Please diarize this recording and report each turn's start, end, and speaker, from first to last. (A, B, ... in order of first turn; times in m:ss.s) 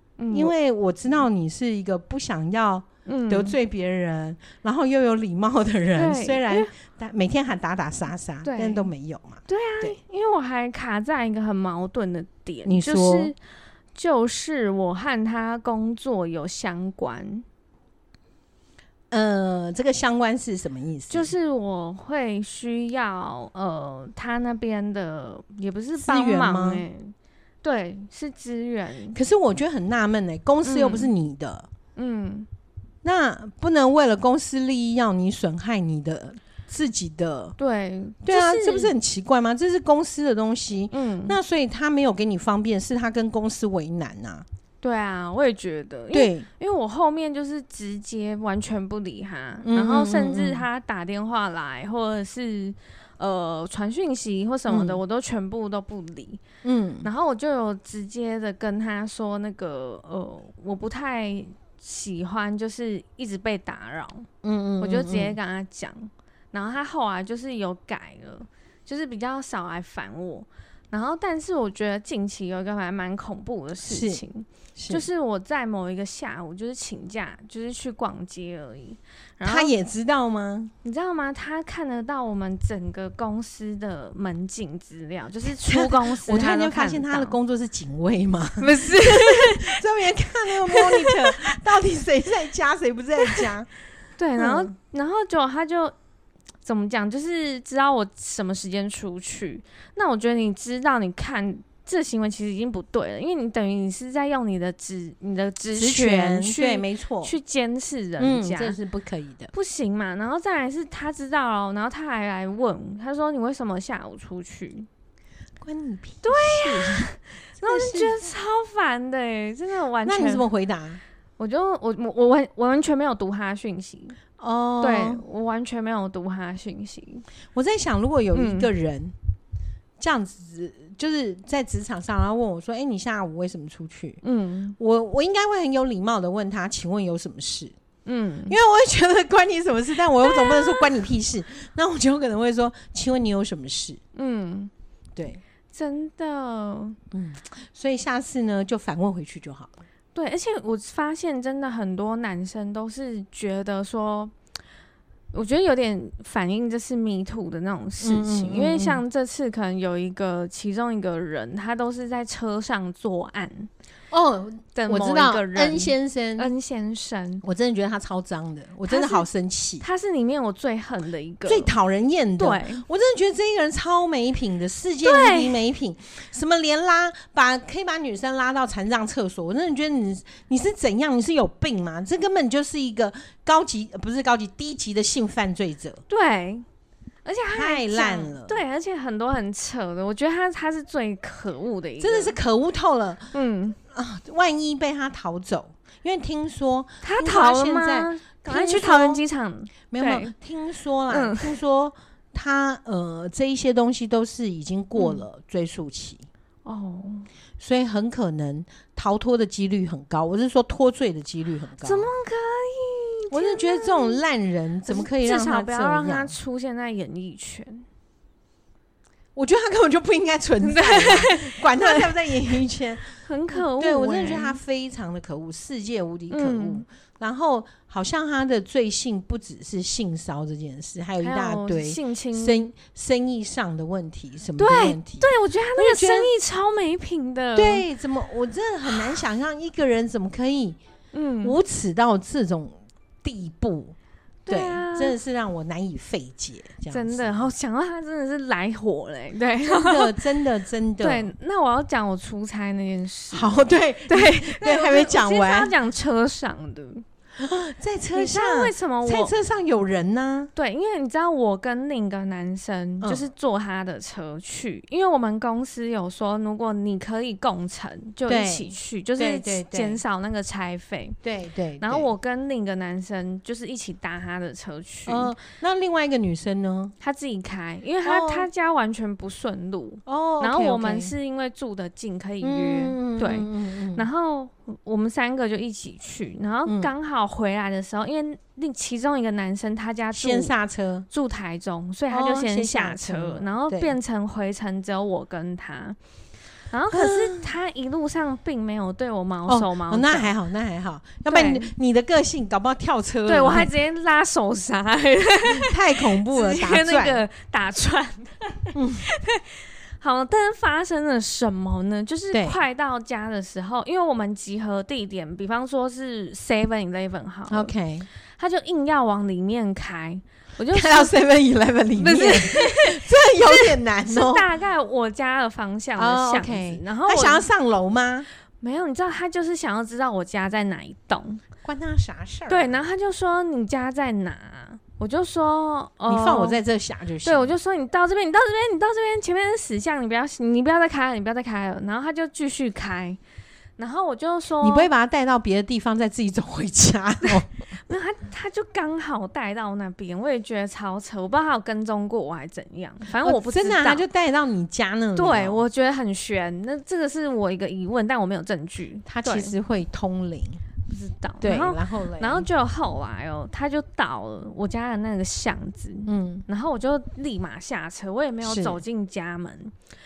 0:00.2-0:00.5 A
0:00.3-0:10.0 B
0:03.0-0:03.6 A
0:06.0-0:06.7 A
0:08.4-0:08.9 A
0:09.5-0:13.4 A
0:12.6-0:13.3 B
0:13.9-0:17.4 A
0:19.1-0:21.3 B
0:21.1-0:29.2 A
0:26.0-0:26.8 B
0:29.1-0:31.7 B
0:30.6-0:31.1 A
0:32.0-0:32.5 A
0:33.0-0:37.5 B
0:37.6-0:38.9 A
0:38.2-0:44.4 B
0:40.9-0:41.4 A
0:44.8-0:56.4 A
0:46.1-0:46.5 B
0:49.6-0:50.7 B
0:54.7-0:55.0 B
0:56.6-0:57.1 B
0:57.0-1:04.3 A
1:04.4-1:05.4 B
1:04.8-1:19.7 A
1:13.8-1:14.2 B
1:14.8-1:15.0 B
1:19.4-1:20.7 B
1:20.8-1:27.4 A
1:25.6-1:33.7 B
1:28.6-1:29.8 A
1:30.7-1:31.3 A
1:34.2-1:35.9 A
1:34.4-1:34.7 B
1:36.6-1:48.8 A
1:45.7-1:47.3 B
1:48.2-1:49.5 B
1:49.5-1:54.9 A
1:55.6-1:57.1 B
1:56.2-2:00.4 A
1:57.6-1:58.1 B
2:00.0-2:01.0 B
2:01.4-2:04.2 A
2:04.4-2:05.2 B
2:04.8-2:07.2 A
2:07.5-2:09.1 B
2:08.3-2:08.7 A
2:10.0-2:14.2 B
2:14.2-2:14.8 A
2:14.8-2:17.7 B
2:18.0-2:18.6 A
2:18.5-2:24.0 B
2:20.2-2:20.8 A
2:24.1-2:24.7 A
2:25.2-2:25.4 B
2:25.7-2:27.0 A
2:27.1-2:29.8 B
2:30.1-2:34.3 A
2:35.3-2:43.7 A
2:38.0-2:39.0 B
2:44.1-2:46.5 B
2:44.7-2:47.4 A
2:47.4-2:49.8 B
2:48.8-2:49.3 A
2:49.8-2:51.7 A
2:51.4-3:06.0 B
2:52.4-2:52.8 A
2:55.0-2:55.6 A
3:06.1-3:06.6 A
3:07.2-3:12.3 A
3:07.5-3:08.6 B
3:12.0-3:13.3 B
3:13.3-3:13.8 A
3:13.9-3:19.2 B
3:17.0-3:20.3 A
3:19.9-3:26.2 B
3:21.1-3:21.5 A
3:25.0-3:25.2 A
3:26.6-3:27.3 A
3:27.6-3:32.1 B
3:31.8-3:34.2 A
3:33.3-3:36.3 B
3:34.9-3:37.8 A
3:39.3-3:56.3 B
3:40.6-3:42.6 A
3:43.2-3:44.6 A
3:46.3-3:46.8 A
3:51.2-3:52.6 A
3:54.6-3:57.8 A
3:57.5-4:00.8 B
4:01.1-4:01.6 A
4:01.4-4:04.0 B
4:04.4-4:05.2 A
4:04.5-4:07.5 B
4:06.9-4:10.1 A
4:09.7-4:11.3 B
4:11.0-4:17.0 A
4:13.3-4:15.7 B
4:17.4-4:20.5 B
4:18.1-4:19.3 A
4:20.5-4:31.2 A
4:28.3-4:30.0 B
4:31.2-4:32.1 B
4:31.8-4:35.3 A
4:35.1-4:36.9 B
4:37.0-4:50.5 A
4:38.0-4:38.5 B
4:40.0-4:41.1 B
4:42.4-4:44.0 B
4:50.1-4:51.1 B
4:51.1-4:56.0 A
4:52.1-4:53.9 B
4:56.7-5:00.3 A
4:56.9-4:57.4 B
4:59.5-5:03.7 B
5:01.3-5:01.7 A
5:03.2-5:17.7 A
5:05.5-5:07.2 B
5:08.7-5:09.0 B
5:12.3-5:12.6 B
5:17.5-5:18.1 B
5:18.4-5:21.1 A
5:20.7-5:24.4 B
5:22.0-5:27.5 A
5:26.0-5:28.3 B
5:28.6-5:31.4 A
5:31.6-5:32.8 B
5:32.5-5:36.6 A
5:36.1-5:37.5 B
5:37.2-5:43.2 A
5:43.8-5:44.9 A
5:44.6-5:47.5 B
5:47.9-5:54.0 A
5:53.2-5:55.6 B
5:55.2-5:59.5 A
5:59.0-6:00.6 B
6:00.9-6:09.7 A
6:01.4-6:02.5 B
6:06.1-6:06.4 B
6:08.4-6:08.8 B